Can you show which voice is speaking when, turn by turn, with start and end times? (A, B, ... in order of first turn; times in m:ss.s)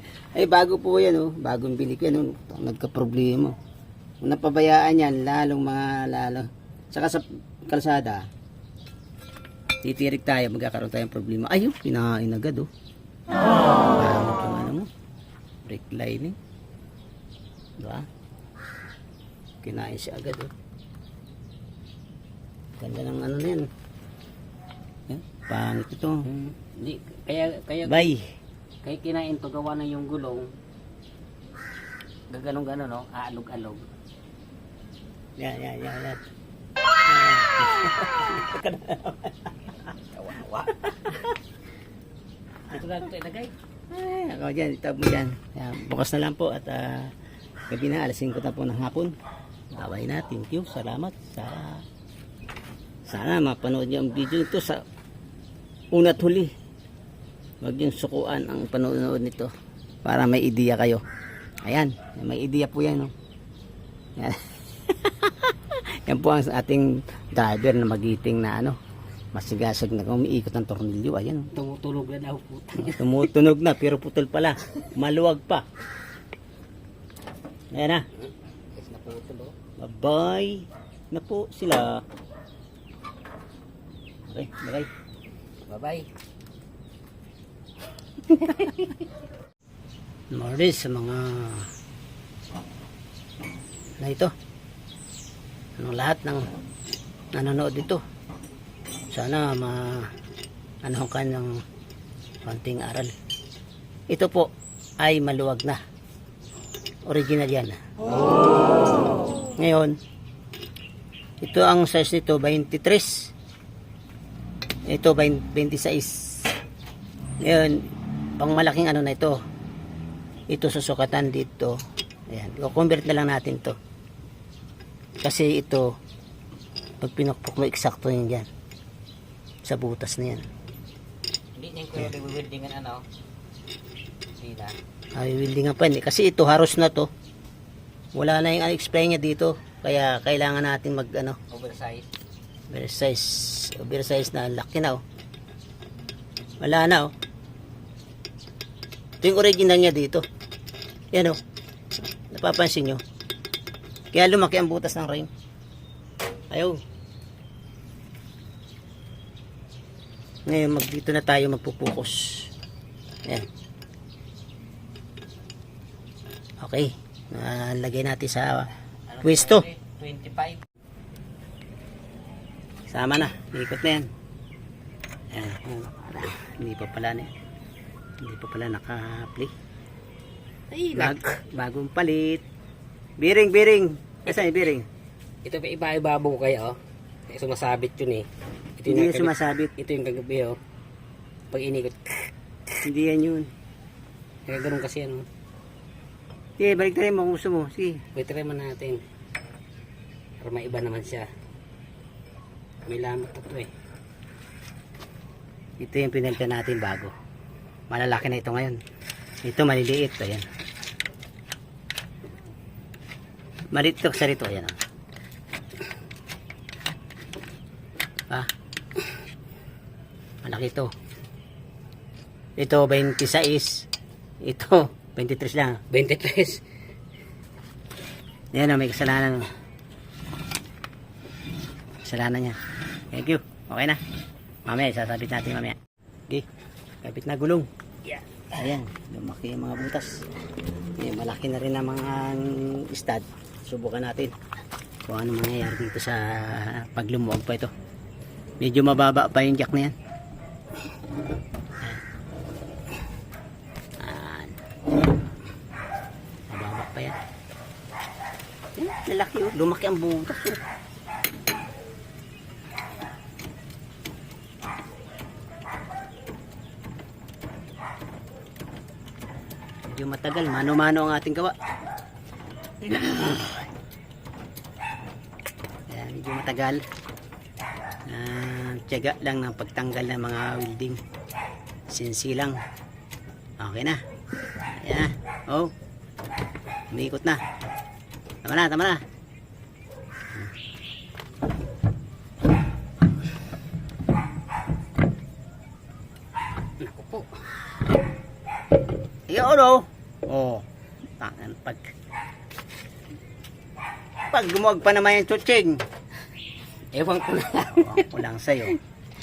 0:00.3-0:03.6 A
0:04.2-0:08.3 A
0:09.8-0:12.7 A
0:13.9-0:14.9 A
0:15.6-0:16.4 A
0:17.8-0:18.1 A
0:19.6-0:20.5 A
0:22.8-0:23.7 A
0:25.1-0:26.3 A
0:26.3-0:28.1 B
0:27.8-0:28.3 A
0:28.8-0:30.5 B
0:32.3-0:33.9 B
0:35.4-0:36.2 A
0:37.1-0:39.5 A
0:40.1-0:41.2 B
0:40.8-0:41.2 A
0:42.7-0:43.5 B
0:43.9-0:47.1 A
0:47.7-0:49.1 A
0:49.7-0:51.8 A
0:53.0-0:54.8 A
0:55.9-0:56.5 A
0:57.6-0:59.5 A
1:00.0-1:01.0 A
1:01.6-1:03.1 A
1:04.2-1:08.8 A
1:09.3-1:11.5 A
1:11.5-1:13.2 B
1:12.8-1:15.6 A
1:17.7-1:18.0 A
1:18.2-1:19.5 B
1:19.8-1:22.0 A
1:24.3-1:24.9 A
1:25.7-1:26.1 B
1:30.3-1:31.7 A
1:34.0-1:34.3 A
1:35.8-1:36.5 A
1:37.3-1:38.0 A
1:39.1-1:40.1 A
1:40.8-1:41.6 A
1:42.4-1:43.1 A
1:44.1-1:45.8 A
1:47.0-1:47.8 A
1:49.6-1:50.0 A
1:51.4-1:53.3 A
1:54.9-1:56.5 A
1:57.4-1:57.8 A
1:58.4-1:59.4 A
2:00.5-2:01.8 A
2:02.3-2:03.8 A
2:05.2-2:06.0 A
2:07.0-2:08.5 A
2:09.6-2:10.5 A
2:11.6-2:13.0 B
2:14.4-2:14.7 B
2:15.1-2:17.1 A
2:18.1-2:21.4 A
2:21.5-2:22.0 B
2:22.7-2:25.0 A
2:26.6-2:27.1 A
2:29.2-2:30.2 A
2:31.1-2:31.4 A
2:32.3-2:33.0 A
2:34.1-2:35.3 A
2:36.5-2:36.8 A
2:40.4-2:42.5 A
2:46.6-2:48.7 A
2:49.1-2:50.6 B
2:49.2-2:49.6 A
2:52.9-2:54.1 A
2:55.3-2:57.3 A
2:58.2-2:59.5 A
3:00.7-3:01.3 B
3:00.9-3:02.4 A
3:03.2-3:04.9 A
3:05.4-3:06.8 B
3:07.3-3:08.3 B
3:08.8-3:10.6 B
3:08.9-3:09.7 A
3:11.5-3:12.1 B
3:12.8-3:13.5 A
3:14.5-3:15.2 B
3:16.6-3:18.0 A
3:18.1-3:19.0 B
3:20.4-3:21.2 B
3:22.8-3:23.7 B
3:25.8-3:27.1 A
3:27.9-3:28.8 A
3:29.4-3:30.4 A
3:33.7-3:34.8 A
3:40.4-3:40.9 A
3:42.6-3:43.9 A
3:44.4-3:45.9 A
3:45.9-3:46.6 B
3:48.5-3:49.5 A
3:52.0-3:52.6 A
3:53.1-3:54.0 A
3:54.6-3:55.8 A
3:57.0-3:57.7 A
3:58.5-4:00.2 A
4:01.0-4:04.3 A
4:05.1-4:07.7 A
4:08.6-4:09.9 A
4:14.0-4:14.6 A
4:16.5-4:17.2 A
4:18.8-4:20.6 A
4:29.9-4:31.6 A
4:32.8-4:33.6 A
4:35.9-4:36.8 A
4:38.0-4:41.0 A
4:41.9-4:42.6 A
4:43.6-4:44.0 A
4:44.8-4:45.7 A
4:46.9-4:47.4 A
4:48.4-4:49.0 A
4:56.8-4:57.3 B
4:59.3-5:00.6 A
5:01.2-5:01.9 A
5:04.3-5:05.8 A
5:06.9-5:08.1 B
5:07.8-5:08.8 A